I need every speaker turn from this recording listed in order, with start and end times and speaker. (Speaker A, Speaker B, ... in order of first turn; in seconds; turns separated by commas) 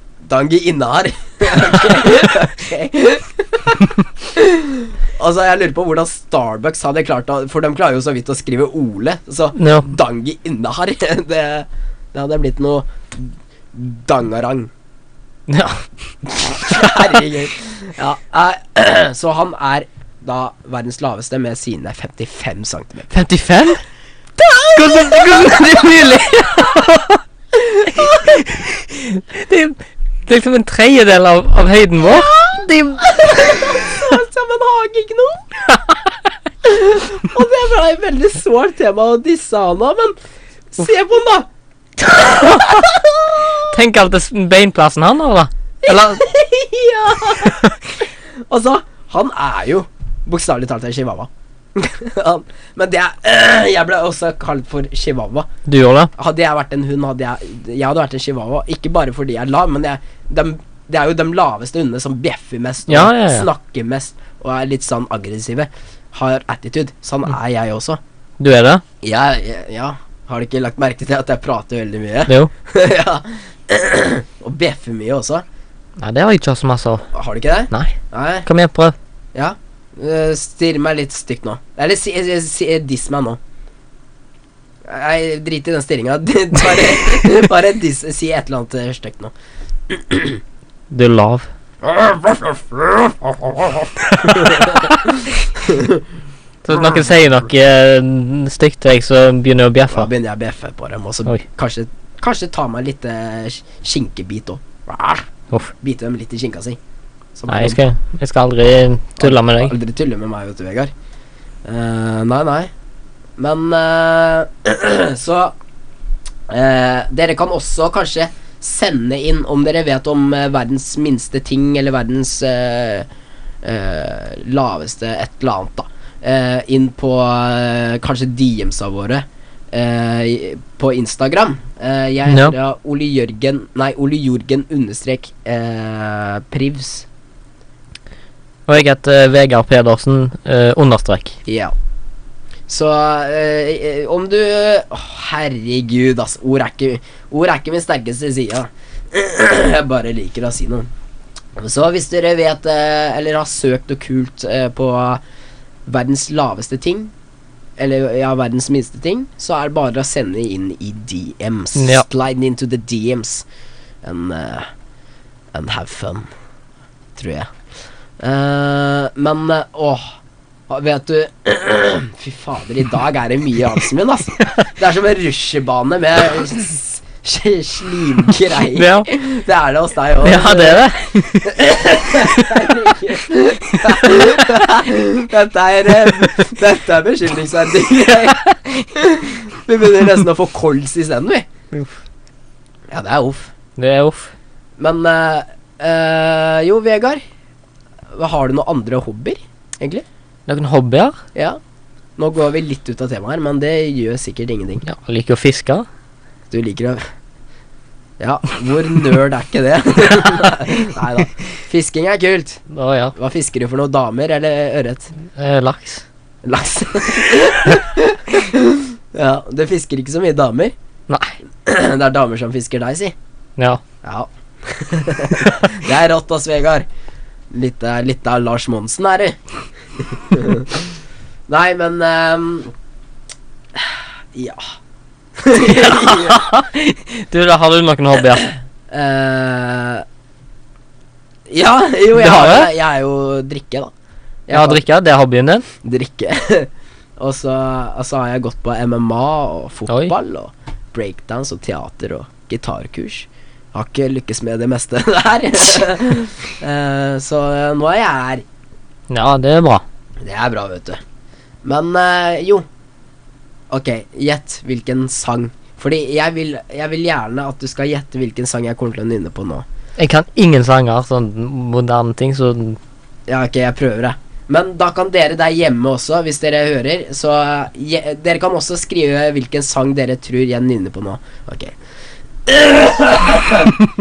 Speaker A: 0.2-14.7, Speaker B: 9.6-9.9, Speaker B: 15.5-15.8, Speaker B: 16.4-17.1, Speaker A: 16.7-23.1, Speaker B: 23.1-23.8, Speaker A: 24.4-26.7, Speaker B: 24.7-27.2, Speaker A: 27.6-28.4, Speaker B: 27.9-34.1, Speaker A: 32.0-35.8, Speaker A: 36.6-40.1, Speaker A: 40.7-41.5, Speaker A: 42.0-43.7, Speaker B: 43.7-46.2, Speaker A: 45.8-55.5, Speaker B: 47.4-47.7, Speaker B: 55.7-56.1, Speaker A: 56.1-68.0, Speaker B: 62.9-63.5, Speaker B: 68.4-68.8, Speaker A: 69.0-75.4, Speaker B: 76.0-77.0, Speaker A: 77.1-78.5, Speaker B: 77.7-78.9, Speaker A: 79.3-83.4, Speaker A: 84.9-89.3, Speaker A: 89.9-90.4, Speaker B: 90.9-91.5, Speaker A: 91.8-96.0, Speaker B: 94.0-95.0, Speaker B: 96.6-100.1, Speaker A: 96.7-97.0, Speaker A: 99.9-105.3, Speaker A: 105.8-106.8, Speaker A: 107.3-107.8, Speaker B: 107.5-109.7, Speaker A: 109.2-110.9, Speaker A: 111.6-112.7, Speaker A: 113.4-115.5, Speaker A: 116.5-123.1, Speaker A: 123.6-137.1, Speaker B: 132.3-132.5, Speaker B: 138.7-141.3, Speaker A: 141.4-141.7, Speaker A: 142.7-150.9, Speaker A: 151.6-155.2, Speaker A: 155.9-157.1, Speaker A: 157.8-163.4, Speaker B: 161.8-162.0, Speaker A: 164.0-164.7, Speaker A: 165.5-166.3, Speaker A: 167.2-167.5, Speaker A: 168.2-170.1, Speaker A: 170.7-180.8, Speaker B: 178.7-179.1, Speaker B: 180.2-181.6, Speaker A: 181.4-191.4, Speaker B: 182.2-182.8, Speaker B: 183.9-184.5, Speaker A: 192.9-193.5, Speaker B: 193.8-194.3, Speaker A: 194.8-197.2, Speaker A: 198.1-200.0, Speaker B: 200.5-201.2, Speaker A: 202.2-204.8, Speaker B: 204.8-205.9, Speaker A: 206.5-207.0, Speaker A: 208.2-212.6, Speaker B: 212.7-213.1, Speaker A: 213.1-215.1, Speaker B: 215.3-216.0, Speaker A: 216.4-220.7, Speaker B: 221.1-221.3, Speaker A: 221.6-223.1, Speaker B: 223.6-223.8, Speaker A: 224.0-226.8, Speaker A: 227.5-229.4, Speaker A: 230.0-230.8, Speaker A: 231.5-232.7, Speaker A: 233.8-234.6, Speaker A: 235.4-236.4, Speaker B: 235.7-238.4, Speaker A: 238.9-240.0, Speaker A: 241.5-243.9, Speaker B: 242.1-242.7, Speaker A: 244.5-244.8, Speaker B: 244.5-245.6, Speaker A: 245.8-258.4, Speaker B: 249.9-250.1, Speaker B: 259.1-259.8, Speaker A: 260.2-261.0, Speaker A: 261.6-262.6, Speaker A: 263.7-269.6, Speaker B: 270.0-272.8, Speaker A: 273.3-281.7, Speaker A: 282.5-283.7